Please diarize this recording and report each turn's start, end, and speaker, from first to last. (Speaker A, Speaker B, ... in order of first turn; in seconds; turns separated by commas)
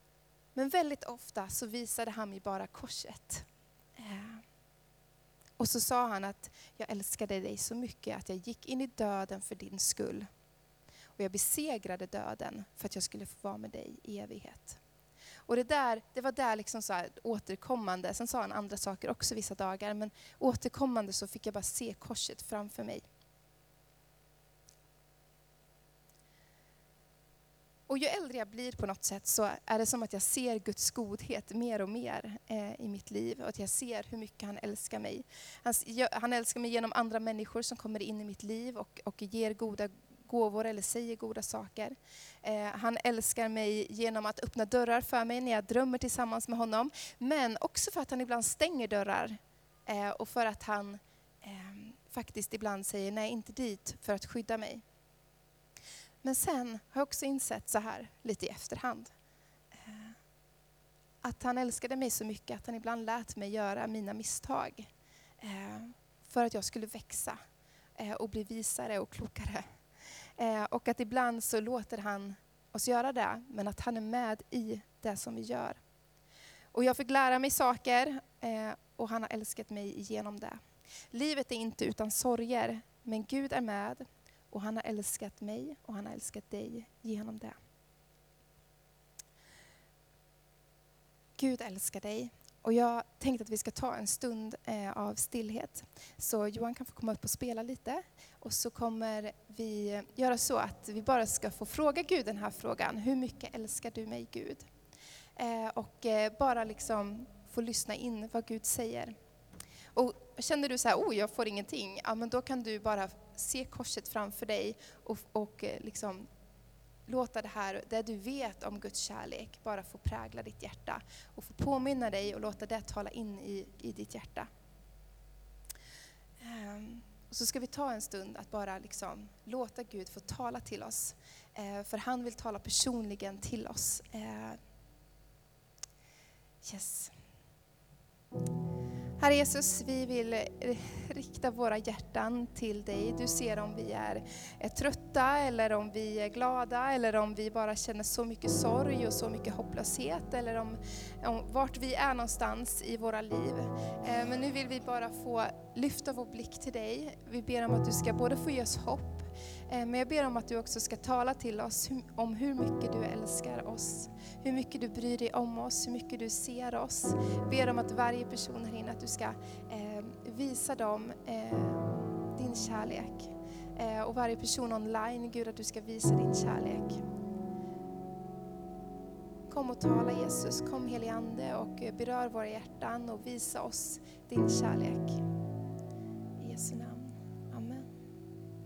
Speaker A: 0.5-3.5, Speaker A: 4.0-4.4, Speaker A: 5.6-10.3, Speaker A: 11.2-14.8, Speaker A: 15.5-23.1, Speaker A: 27.9-54.8, Speaker A: 56.2-59.1, Speaker A: 59.7-60.2, Speaker A: 61.2-64.9, Speaker A: 65.4-67.4, Speaker A: 68.0-69.7, Speaker A: 70.4-75.8, Speaker A: 76.7-80.6, Speaker A: 81.1-87.6, Speaker A: 91.4-104.7, Speaker A: 105.3-109.1, Speaker A: 109.9-116.3, Speaker A: 117.1-124.5, Speaker A: 126.4-134.6, Speaker A: 136.6-137.1, Speaker A: 139.2-177.0, Speaker A: 179.5-185.2, Speaker A: 186.4-187.9